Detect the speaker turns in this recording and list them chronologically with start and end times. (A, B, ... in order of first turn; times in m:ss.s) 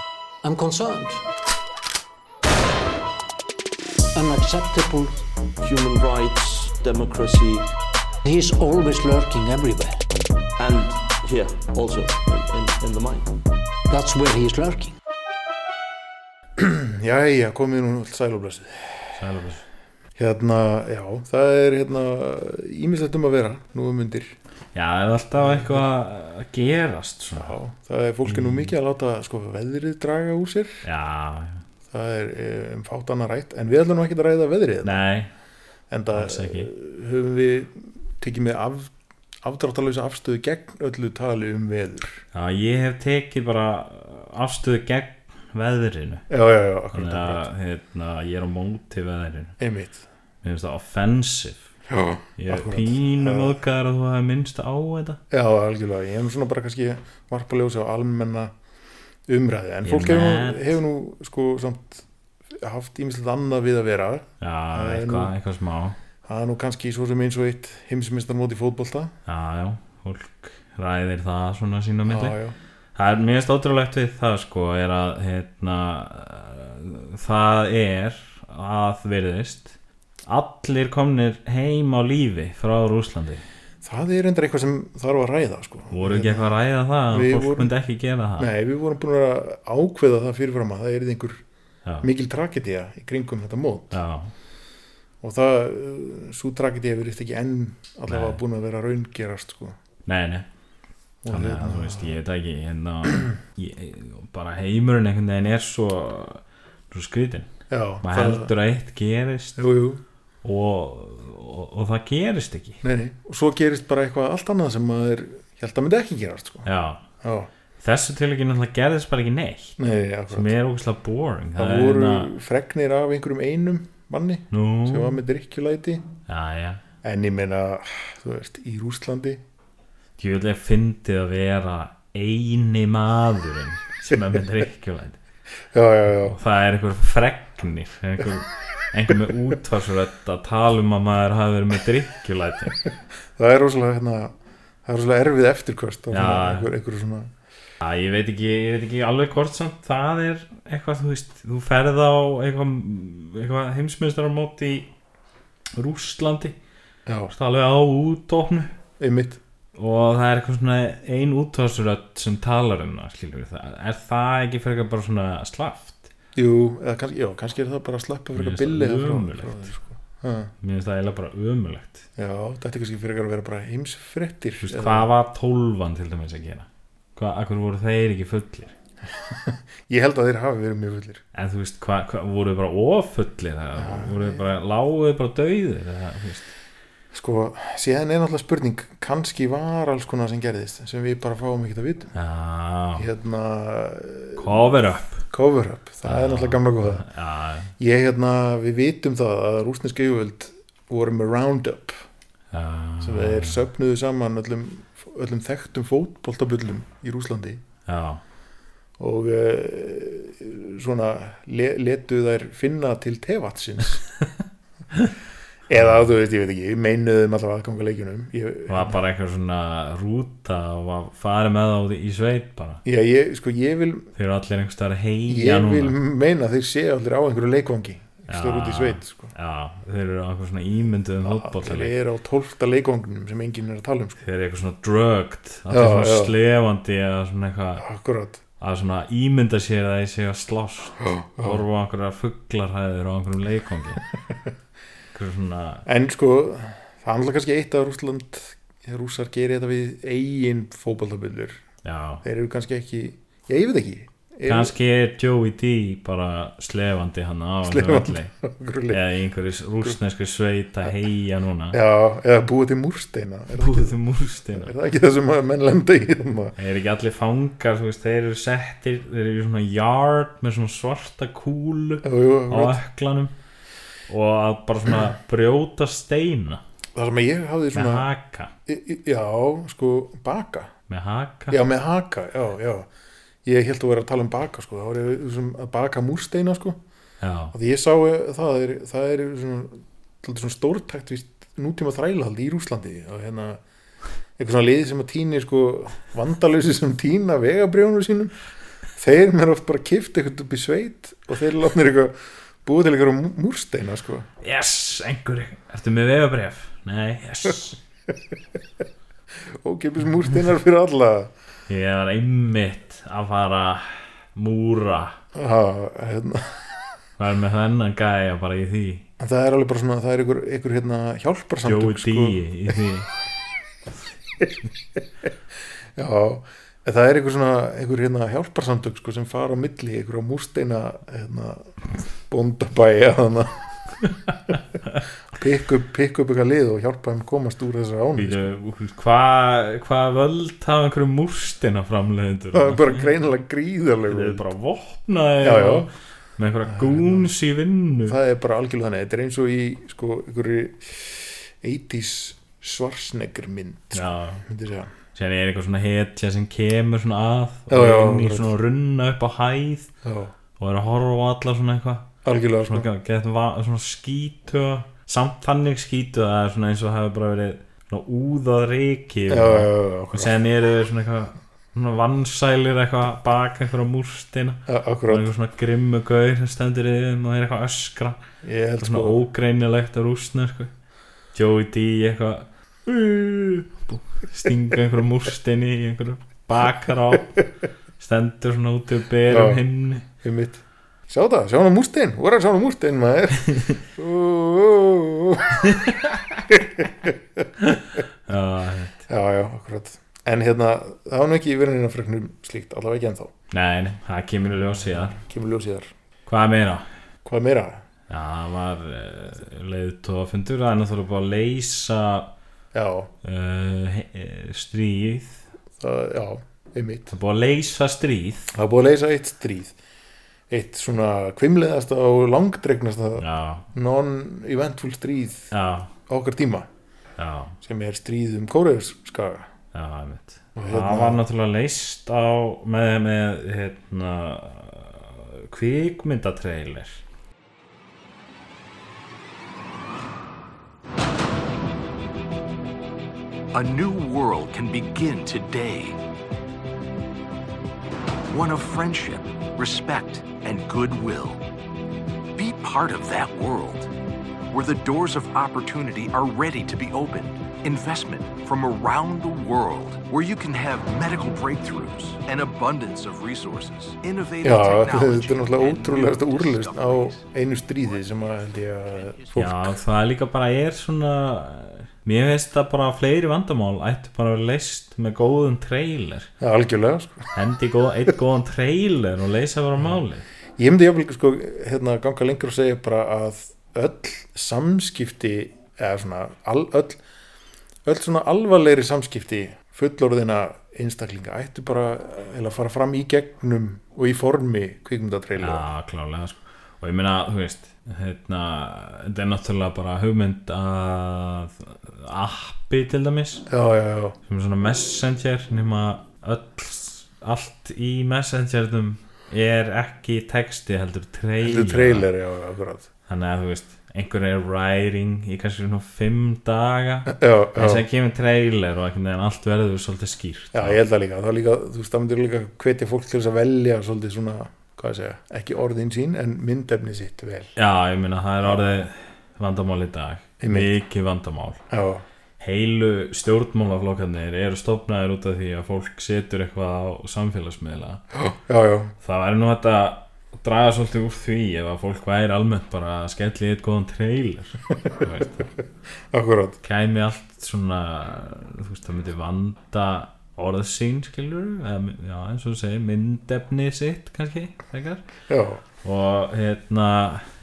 0:00.4-0:01.2 A
0:04.2-0:05.2 A
0:05.6-0:07.7 B
0:08.2-0:10.0 A
0:10.6-0:13.4 B
0:13.9-0:15.0 A
0:16.6-0:19.1 C
0:19.1-0:19.6 D
0:20.2-0:24.4 C
0:24.8-0:27.6 D
0:25.4-0:25.9 C
0:27.4-0:30.8 C
0:28.2-0:28.7 D
0:30.8-0:31.6 D
0:31.9-0:35.0 C
0:34.8-0:35.3 D
0:35.9-0:38.9 C
0:36.1-0:36.7 D
0:39.4-0:42.2 C
0:42.3-0:46.2 D
0:46.3-0:47.4 C
0:46.9-0:49.6 D
0:49.6-0:50.0 C
0:50.4-0:51.7 D
0:51.9-0:53.6 C
0:52.4-0:55.2 D
0:55.3-0:58.5 C
0:59.3-1:05.3 C
0:59.8-1:00.8 D
1:04.4-1:06.0 D
1:06.2-1:09.1 C
1:09.3-1:12.4 D
1:12.1-1:12.6 C
1:13.0-1:19.8 D
1:20.3-1:23.4 D
1:23.8-1:26.6 C
1:25.9-1:28.5 D
1:27.1-1:27.7 C
1:28.4-1:31.4 C
1:32.0-1:34.0 C
1:33.9-1:34.3 D
1:35.2-1:39.8 C
1:38.1-1:38.4 D
1:40.1-1:40.5 D
1:41.2-1:42.2 C
1:41.3-1:47.5 D
1:47.7-1:48.5 C
1:48.0-1:49.6 D
1:49.6-1:50.0 C
1:50.4-1:52.8 D
1:52.8-1:56.7 C
1:56.6-1:57.0 D
1:57.2-1:57.5 C
1:57.8-1:59.8 D
1:59.8-2:00.5 C
2:00.3-2:02.3 D
2:01.6-2:06.0 C
2:04.5-2:05.2 D
2:06.3-2:06.8 D
2:07.0-2:09.4 C
2:10.2-2:15.2 D
2:15.7-2:16.4 C
2:16.2-2:22.8 D
2:23.4-2:24.3 C
2:24.8-2:27.3 C
2:26.1-2:26.7 D
2:27.8-2:34.9 D
2:35.8-2:36.6 D
2:37.1-2:37.3 C
2:37.3-2:38.7 D
2:39.0-2:39.4 C
2:39.8-2:46.1 D
2:46.4-2:50.5 C
2:48.4-2:49.7 D
2:50.6-2:52.0 D
2:52.2-2:55.1 C
2:54.6-2:58.7 D
2:59.1-3:01.2 C
3:01.4-3:06.5 D
3:03.8-3:04.4 C
3:07.1-3:12.1 C
3:12.1-3:13.1 D
3:13.0-3:17.0 C
3:14.4-3:15.2 D
3:16.0-3:17.7 D
3:17.8-3:22.0 C
3:22.5-3:23.6 D
3:23.0-3:27.6 C
3:27.9-3:28.2 D
3:29.0-3:34.0 C
3:35.7-3:39.0 C
3:35.7-3:36.1 D
3:38.7-3:42.8 D
3:42.8-3:44.1 C
3:44.2-3:46.0 D
3:45.3-3:49.3 C
3:48.3-3:51.9 D
3:51.2-3:54.2 C
3:54.2-3:57.8 D
3:55.7-3:56.3 C
3:57.8-3:58.4 C
3:58.6-4:04.0 D
4:01.0-4:01.6 C
4:05.1-4:05.8 D
4:05.9-4:11.6 C
4:11.8-4:12.2 D
4:12.2-4:14.7 C
4:14.5-4:18.3 D
4:17.6-4:19.0 C
4:18.9-4:21.8 D
4:21.7-4:24.0 C
4:23.5-4:24.7 D
4:24.5-4:26.6 C
4:26.6-4:33.3 D
4:32.0-4:32.8 C
4:34.1-4:36.6 D
4:37.0-4:38.1 C
4:37.7-4:38.5 D
4:38.7-4:40.7 C
4:40.9-4:41.6 D
4:41.5-4:42.9 C
4:43.4-4:46.8 C
4:47.2-4:47.6 D
4:47.5-4:53.6 C
4:54.4-4:58.3 C
4:59.0-5:04.3 C
5:04.4-5:07.8 D
5:09.4-5:11.3 C
5:11.7-5:15.2 D
5:15.4-5:16.8 C
5:17.2-5:19.1 D
5:19.2-5:22.8 C
5:21.6-5:23.1 D
5:24.4-5:25.0 C
5:26.0-5:33.6 C
5:35.3-5:38.4 C
5:38.2-5:43.1 D
5:42.5-5:44.5 C
5:44.1-5:48.2 D
5:45.4-5:45.9 C
5:46.7-5:47.3 C
5:48.1-5:54.9 C
5:53.9-5:54.4 D
5:55.2-5:59.9 D
5:57.7-5:58.5 C
6:00.0-6:00.3 C
6:00.6-6:02.1 D
6:02.2-6:02.9 C
6:02.6-6:18.2 D
6:09.3-6:10.3 C
6:14.7-6:15.3 C
6:18.4-6:19.2 C
6:18.8-6:20.7 D
6:21.3-6:27.4 D
6:28.0-6:30.1 D
6:29.3-6:29.6 C
6:30.2-6:35.9 C
6:35.7-6:36.4 D
6:36.5-6:37.4 C
6:37.6-6:39.0 D
6:39.1-6:43.3 C
6:43.5-6:45.2 D
6:45.1-6:45.9 C
6:46.3-6:46.9 D
6:47.2-6:47.8 C
6:48.1-6:52.3 D
6:52.7-6:53.1 C
6:53.2-6:55.4 D
6:55.8-6:57.1 C
6:57.1-6:58.5 D
6:58.5-6:59.8 C
7:00.5-7:05.5 C
7:03.2-7:03.7 D
7:05.5-7:05.9 D
7:06.1-7:06.7 C
7:07.2-7:07.6 D
7:07.6-7:09.5 C
7:09.7-7:17.0 D
7:10.6-7:11.2 C
7:23.5-7:26.0 E
7:28.3-7:31.4 E
7:32.4-7:33.9 E
7:34.5-7:47.3 E
7:44.4-7:49.8 C
7:49.0-7:49.3 E
7:49.4-7:56.3 D
7:56.4-7:57.3 C
7:57.3-8:00.2 D
8:00.6-8:07.0 C
8:07.8-8:15.6 C
8:15.4-8:23.5 D
8:23.5-8:24.2 C
8:24.2-8:32.1 D
8:31.4-8:32.9 C
8:33.1-8:40.8 D
8:37.1-8:37.8 C
8:40.5-8:47.5 C
8:47.6-8:51.6 D
8:50.4-8:50.7 C
8:51.7-8:52.0 C
8:52.4-8:58.0 D
8:58.1-8:58.9 C
8:59.0-9:05.5 D
9:06.1-9:06.6 C
9:06.6-9:15.0 D
9:15.3-9:15.6 C
9:15.8-9:17.3 D